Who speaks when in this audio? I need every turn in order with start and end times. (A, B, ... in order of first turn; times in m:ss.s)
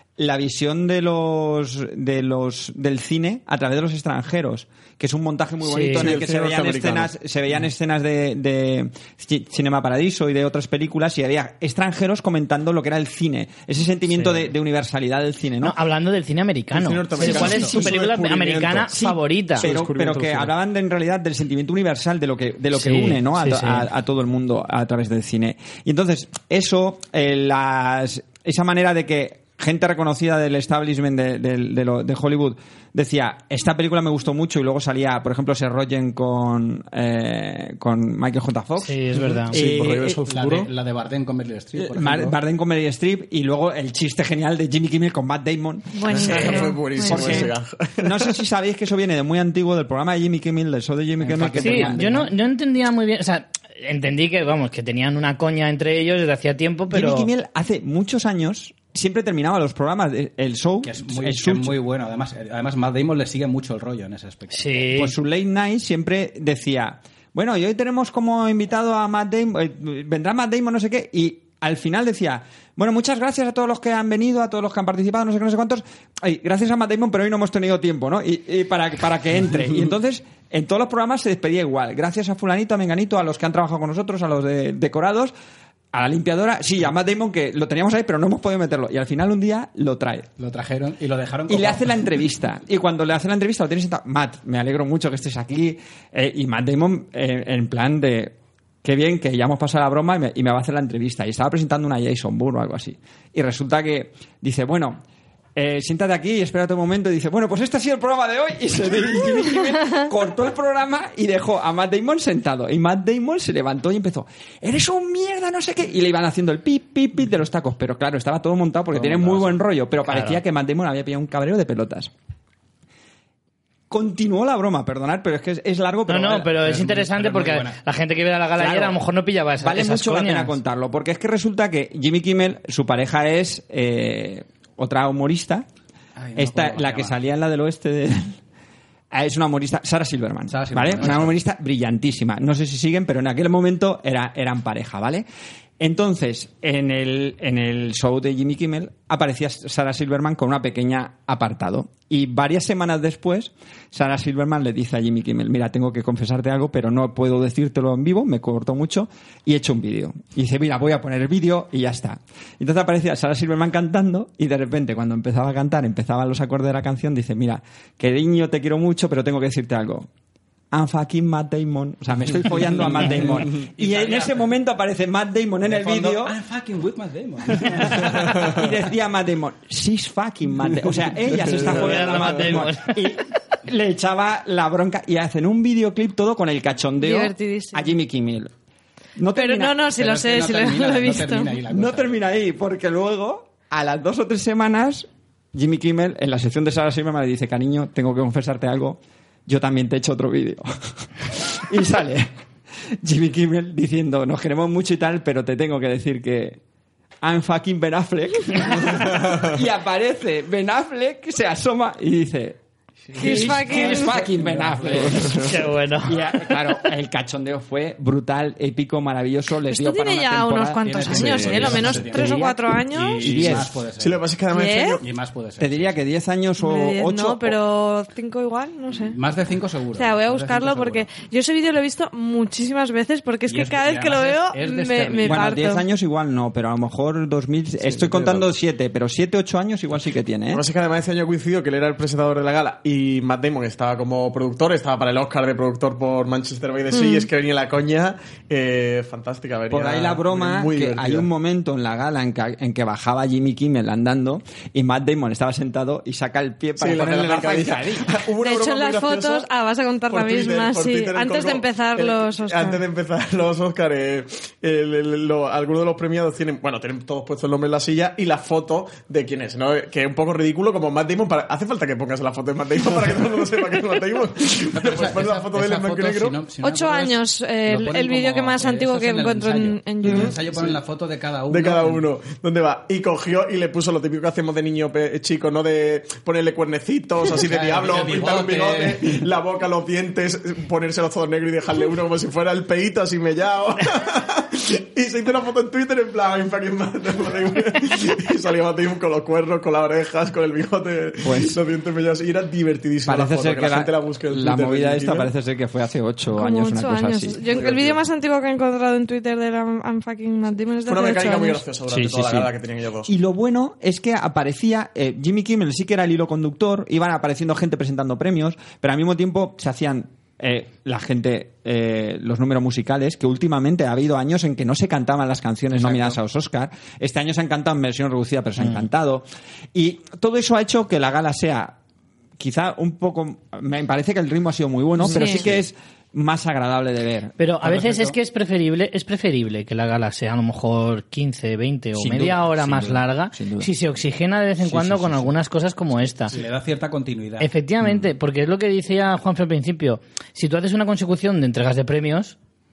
0:00.2-0:15.8 A
0:05.6-0:06.1 B
0:05.9-0:07.1 C
0:14.1-0:14.4 B
0:15.6-0:19.7 B
0:16.7-0:19.0 C
0:17.2-0:17.9 A
0:18.9-0:40.2 A
0:19.6-0:20.5 C
0:22.7-0:23.9 B
0:38.8-0:39.6 B
0:39.5-0:40.7 C
0:40.2-0:42.4 D
0:41.8-0:52.1 A
0:46.0-0:47.5 E
0:46.1-0:48.3 C
0:51.2-0:52.3 D
0:51.6-0:57.3 B
0:56.9-1:01.8 A
1:00.8-1:05.2 D
1:04.5-1:05.1 B
1:05.0-1:25.3 A
1:25.9-1:30.3 A
1:30.4-1:31.9 D
1:31.5-1:45.0 A
1:45.6-2:02.1 A
1:58.9-1:59.6 D
2:00.1-2:00.4 B
2:03.9-2:06.6 A
2:06.1-2:10.6 B
2:06.5-2:07.8 D
2:08.6-2:09.0 A
2:09.6-2:15.7 A
2:16.2-2:17.2 D
2:16.4-2:18.4 A
2:19.1-2:25.3 A
2:20.5-2:21.4 D
2:25.8-2:50.1 A
2:50.7-2:56.4 A
2:52.7-2:54.5 D
2:55.6-2:58.7 D
2:57.8-3:08.5 A
3:01.4-3:02.2 C
3:01.5-3:03.1 B
3:07.0-3:07.9 E
3:09.2-3:09.8 A
3:09.3-3:11.6 E
3:09.9-3:12.2 D
3:11.7-3:20.7 A
3:21.2-3:22.3 A
3:23.0-3:26.6 A
3:27.2-3:32.6 A
3:33.2-3:35.3 D
3:33.2-3:33.8 B
3:33.2-3:34.2 E
3:33.2-3:42.6 A
3:35.1-3:35.5 C
3:35.4-3:36.8 B
3:39.7-3:43.4 E
3:40.8-3:44.3 D
3:41.1-3:41.8 C
3:43.2-3:43.7 A
3:43.4-3:45.0 C
3:44.5-3:45.0 E
3:45.0-3:46.0 D
3:45.6-3:47.6 A
3:46.6-3:49.2 E
3:49.0-3:51.1 D
3:49.9-3:55.8 E
3:53.5-3:55.5 D
3:55.2-4:00.6 A
3:57.9-3:58.4 C
4:00.5-4:11.3 C
4:06.9-4:07.3 E
4:09.7-4:18.2 A
4:16.8-4:19.5 C
4:18.4-4:22.8 E
4:20.1-4:36.4 C
4:34.7-4:42.0 D
4:36.6-4:40.4 E
4:40.0-4:40.8 C
4:41.5-5:05.3 C
4:47.3-4:49.2 D
5:01.2-5:01.6 A
5:03.0-5:07.4 A
5:06.3-5:11.6 E
5:07.5-5:08.0 C
5:10.9-5:13.1 C
5:11.9-5:12.5 A
5:13.1-5:31.8 A
5:32.4-5:37.4 A
5:35.1-5:35.4 E
5:37.4-5:46.4 B
5:37.6-5:38.2 D
5:42.0-5:43.7 A
5:44.6-5:45.3 D
5:46.3-5:47.5 D
5:47.4-5:52.4 B